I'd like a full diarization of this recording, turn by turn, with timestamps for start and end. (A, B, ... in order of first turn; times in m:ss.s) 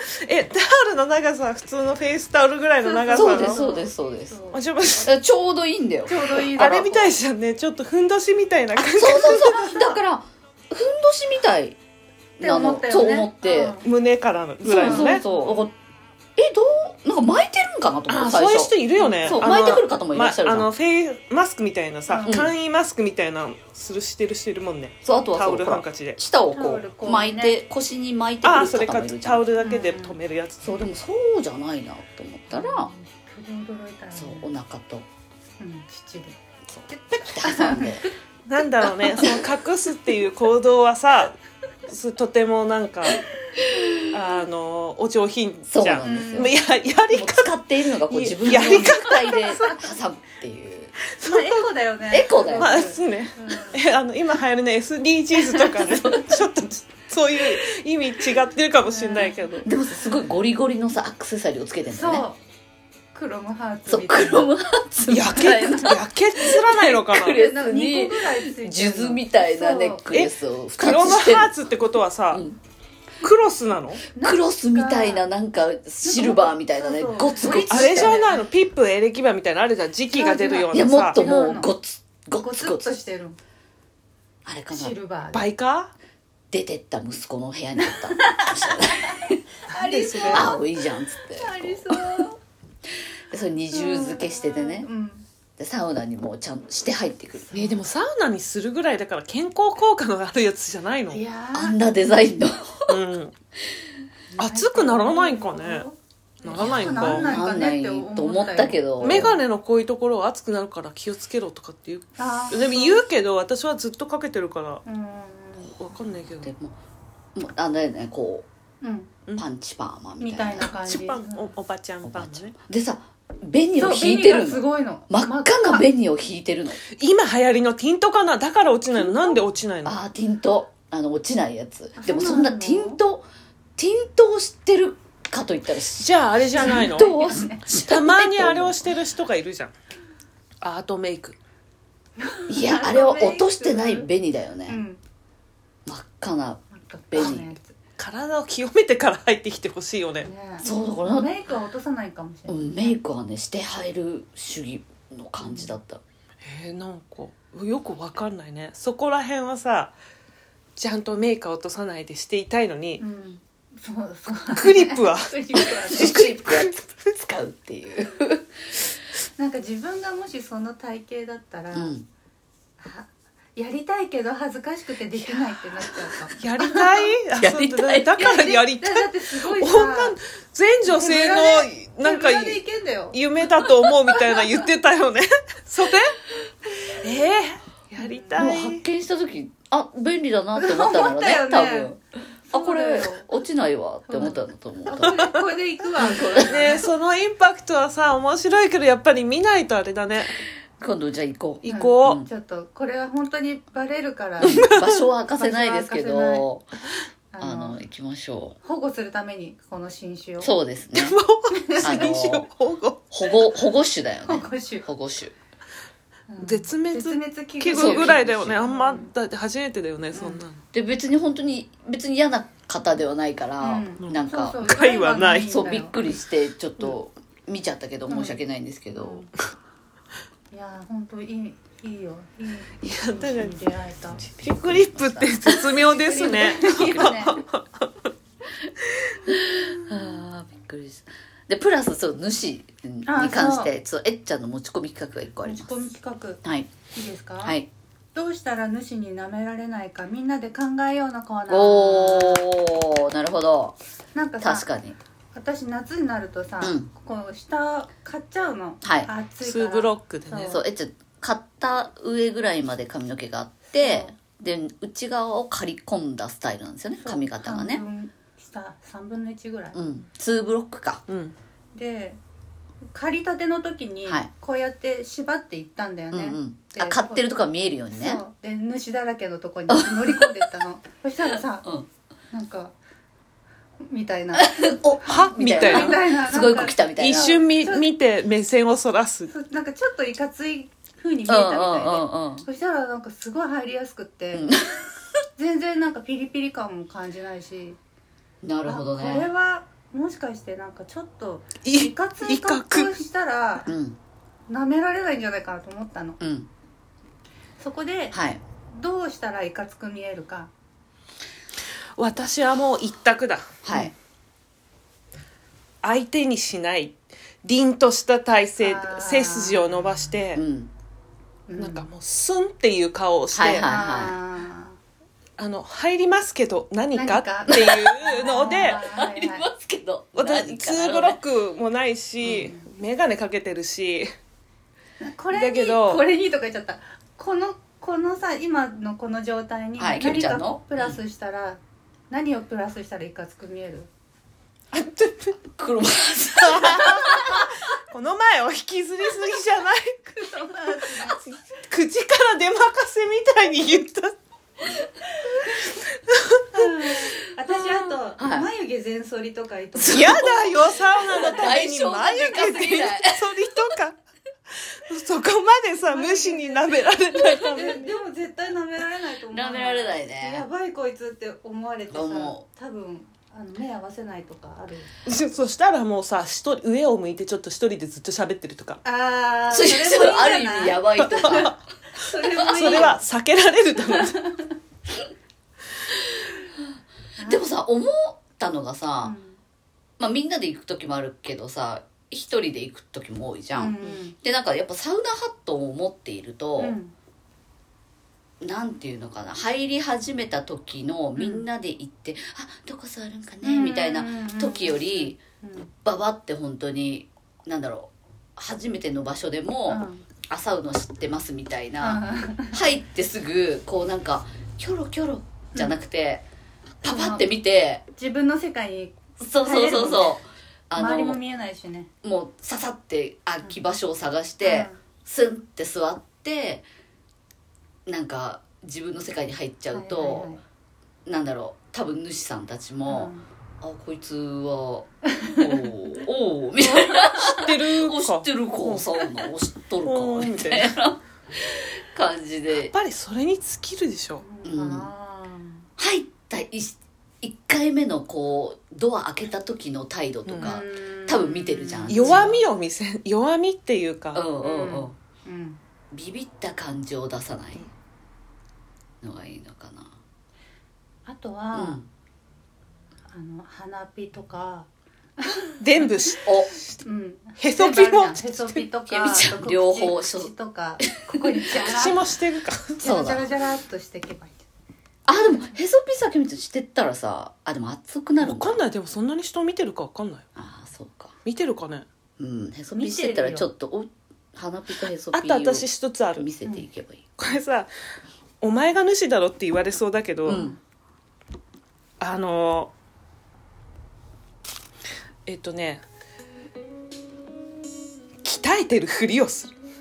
0:00.2-0:03.6 A
0:02.8-0:04.6 B
0:03.1-0:04.4 C
0:04.5-0:05.1 A
0:05.0-0:07.1 C
0:06.1-0:06.9 B
0:06.6-0:09.7 A
0:08.8-0:11.8 C
0:09.6-0:09.9 B
0:12.4-0:13.8 C
0:12.4-0:13.8 B
0:13.8-0:15.2 A
0:14.6-0:15.7 C
0:14.7-0:15.6 B
0:16.4-0:20.7 C
0:18.1-0:26.2 A
0:19.0-0:19.3 B
0:22.1-0:22.4 B
0:22.3-0:22.5 C
0:25.0-0:29.4 C
0:26.5-0:27.6 B
0:28.4-0:30.7 A
0:29.6-0:30.2 B
0:30.6-0:32.9 C
0:32.5-0:34.5 B
0:34.1-0:35.1 C
0:35.6-0:36.4 B
0:36.7-0:38.0 C
0:36.9-0:38.1 B
0:38.5-0:43.2 A
0:43.6-0:44.0 C
0:44.0-0:49.8 A
0:45.7-0:46.5 C
0:46.0-0:46.5 B
0:47.1-0:50.9 C
0:51.2-0:51.7 A
0:51.2-0:53.8 B
0:52.1-0:52.8 C
0:52.6-0:59.7 A
0:58.9-0:59.4 B
0:59.6-1:02.2 C
1:01.9-1:02.4 B
1:03.1-1:04.5 B
1:03.9-1:11.5 C
1:05.1-1:07.4 A
1:07.2-1:10.1 B
1:10.1-1:12.4 A
1:12.3-1:12.6 C
1:13.2-1:14.0 A
1:14.1-1:15.2 B
1:14.2-1:18.2 C
1:16.0-1:18.4 B
1:17.4-1:21.2 A
1:20.1-1:21.7 B
1:20.7-1:22.9 C
1:22.4-1:23.4 B
1:24.4-1:25.0 C
1:24.7-1:25.5 B
1:25.3-1:25.9 A
1:26.5-1:29.4 C
1:27.8-1:30.7 B
1:29.7-1:30.5 A
1:30.2-1:32.2 C
1:31.3-1:32.4 B
1:33.3-1:34.9 C
1:33.7-1:35.2 B
1:35.6-1:37.7 C
1:37.5-1:37.8 B
1:37.5-1:41.2 A
1:41.1-1:42.1 B
1:41.5-1:43.0 C
1:42.9-1:43.3 A
1:44.3-1:49.3 B
1:44.4-1:45.9 A
1:46.4-1:47.3 A
1:46.5-1:49.4 C
1:49.0-1:54.8 A
1:52.2-1:53.0 B
1:54.8-1:55.7 B
1:55.7-1:56.5 A
1:56.4-1:56.8 C
1:57.3-1:58.4 C
1:58.8-1:59.1 B
1:59.4-2:00.7 C
2:00.2-2:01.5 B
2:00.7-2:02.5 A
2:02.0-2:06.8 C
2:03.8-2:05.9 B
2:07.0-2:10.0 A
2:09.8-2:13.2 C
2:12.0-2:13.0 B
2:13.8-2:18.8 C
2:16.0-2:17.2 A
2:16.6-2:17.6 B
2:17.7-2:19.7 A
2:20.6-2:21.4 A
2:22.2-2:24.1 B
2:22.5-2:24.8 C
2:24.7-2:25.0 B
2:25.8-2:27.5 C
2:26.7-2:27.7 B
2:28.0-2:30.3 A
2:30.2-2:33.0 B
2:30.6-2:31.3 C
2:32.5-2:36.0 C
2:35.4-2:35.7 B
2:36.4-2:39.9 A
2:40.8-2:43.0 A
2:43.0-2:46.1 B
2:44.5-2:46.7 A
2:45.9-2:48.5 C
2:49.4-2:51.9 B
2:51.7-2:52.1 C
2:52.8-2:56.3 B
2:55.8-2:56.1 C
2:56.4-3:06.2 A
2:57.4-2:58.2 C
2:58.2-3:00.2 B
3:00.8-3:03.2 B
3:04.2-3:04.5 B
3:07.0-3:08.8 A
3:08.0-3:08.5 B
3:08.4-3:15.4 C
3:10.5-3:11.9 B
3:12.5-3:13.3 B
3:14.1-3:16.9 B
3:16.0-3:16.8 C
3:16.4-3:20.4 A
3:20.8-3:22.3 C
3:21.6-3:22.2 A
3:21.6-3:24.7 B
3:24.4-3:26.6 C
3:24.4-3:25.0 A
3:25.3-3:26.4 B
3:27.3-3:27.8 B
3:27.4-3:28.6 C
3:28.6-3:30.5 B
3:30.4-3:31.2 C
3:30.9-3:33.5 A
3:31.5-3:32.2 B
3:31.8-3:32.5 C
3:33.1-3:35.3 C
3:34.2-3:34.9 B
3:36.3-3:39.1 B
3:36.4-3:40.6 A
3:37.7-3:38.6 C
3:40.1-3:40.4 B
3:40.7-3:44.6 C
3:43.6-3:46.0 B
3:44.6-3:45.6 A
3:45.2-3:49.3 C
3:48.1-3:48.4 B
3:49.0-3:49.3 B
3:50.5-3:54.2 B
3:52.8-3:53.7 A
3:54.2-3:57.9 A
3:54.3-3:55.7 C
3:55.8-3:57.4 B
3:59.3-4:05.7 C
4:03.0-4:03.7 B
4:05.4-4:07.6 B
4:06.4-4:06.7 C
4:07.4-4:07.7 C
4:08.1-4:12.5 B
4:11.5-4:13.8 C
4:14.1-4:14.7 B
4:14.4-4:15.0 C
4:15.3-4:20.6 B
4:16.6-4:16.9 C
4:18.8-4:19.1 C
4:19.4-4:20.6 A
4:20.4-4:27.8 C
4:23.8-4:24.1 B
4:27.0-4:29.8 B
4:29.7-4:31.0 C
4:31.1-4:31.3 A
4:31.7-4:32.2 B
4:32.9-4:37.3 B
4:36.1-4:38.2 C
4:37.9-4:41.7 B
4:39.7-4:40.3 C
4:42.3-4:42.7 B
4:43.8-4:47.9 B
4:44.4-4:47.4 C
4:45.0-4:46.0 A
4:47.0-4:49.3 A
4:49.3-4:54.5 B
4:51.3-4:52.4 C
4:54.3-4:54.9 C
4:55.4-4:57.8 B
4:58.4-4:59.3 C
4:58.6-5:03.7 B
5:01.6-5:02.9 A
5:03.6-5:04.0 C
5:04.5-5:06.2 B
5:06.2-5:06.5 C
5:07.6-5:10.5 B
5:08.1-5:08.4 C
5:12.0-5:13.9 A
5:13.6-5:13.9 C
5:15.8-5:20.4 A
5:18.6-5:19.9 B
5:20.3-5:20.7 C
5:21.5-5:21.9 B
5:21.6-5:23.7 A
5:23.3-5:24.2 C
5:23.6-5:24.8 B
5:25.4-5:28.8 A
5:26.9-5:29.4 B
5:27.5-5:31.2 C
5:30.1-5:34.1 A
5:32.2-5:32.6 C
5:35.0-5:43.9 B
5:35.3-5:36.0 A
5:39.8-5:41.0 C
5:44.7-5:45.4 A
5:45.6-5:47.5 C
5:46.4-5:50.5 A
5:50.2-5:51.2 B
5:51.2-5:54.1 A
5:55.6-5:56.7 A
5:56.5-6:01.6 B
5:58.2-5:58.5 C
5:59.8-6:03.3 C
5:59.9-6:04.0 A
6:04.6-6:08.0 A
6:05.9-6:14.9 B
6:09.3-6:10.4 C
6:11.9-6:12.4 C
6:15.0-6:18.8 A
6:18.8-6:23.0 B
6:19.5-6:21.5 C
6:21.0-6:21.5 A
6:22.3-6:22.9 C
6:22.4-6:24.3 A
6:23.9-6:24.5 B
6:27.2-6:27.4 B
6:27.2-6:29.1 C
6:29.0-6:29.4 B
6:30.0-6:36.8 C
6:33.6-6:34.2 B
6:36.6-6:36.9 B
6:38.4-6:45.2 C
6:41.2-6:41.4 B
6:43.4-6:45.7 B
6:45.7-6:56.2 C
6:49.7-6:50.0 B
6:51.8-6:52.6 B
6:56.8-6:57.3 B
6:56.8-6:57.8 C
6:58.0-7:00.2 B
6:59.2-7:01.2 C
7:00.7-7:01.9 B
7:02.0-7:06.6 C
7:04.4-7:04.8 B
7:07.8-7:10.3 C
7:09.7-7:10.4 B
7:11.0-7:22.7 C
7:12.8-7:13.2 B
7:16.6-7:19.2 A
7:19.8-7:20.8 A
7:22.6-7:24.2 A
7:24.2-7:25.6 B
7:24.4-7:24.9 C
7:25.8-7:32.4 C
7:30.3-7:30.6 A
7:30.4-7:32.4 B
7:31.9-7:34.2 A
7:34.1-7:34.9 C
7:34.4-7:35.6 B
7:35.9-7:37.7 C
7:39.0-7:39.9 C
7:41.0-7:41.8 B
7:41.5-7:41.9 C
7:43.1-7:44.7 B
7:45.2-7:46.0 B
7:45.6-7:46.3 A
7:46.2-7:46.5 C
7:46.8-7:52.0 B
7:47.4-7:48.6 A
7:48.9-7:51.4 C
7:51.6-7:52.8 A
7:52.8-7:54.4 B
7:52.8-7:53.3 C
7:55.1-7:58.6 C
7:58.2-8:00.2 A
8:00.4-8:01.1 C
8:01.2-8:01.8 A
8:02.2-8:07.2 C
8:02.8-8:03.5 B
8:05.1-8:06.2 A
8:07.2-8:07.7 A
8:08.4-8:10.4 A
8:10.2-8:10.6 C
8:10.3-8:10.6 B
8:12.0-8:12.7 A
8:15.2-8:15.8 A
8:18.2-8:19.5 A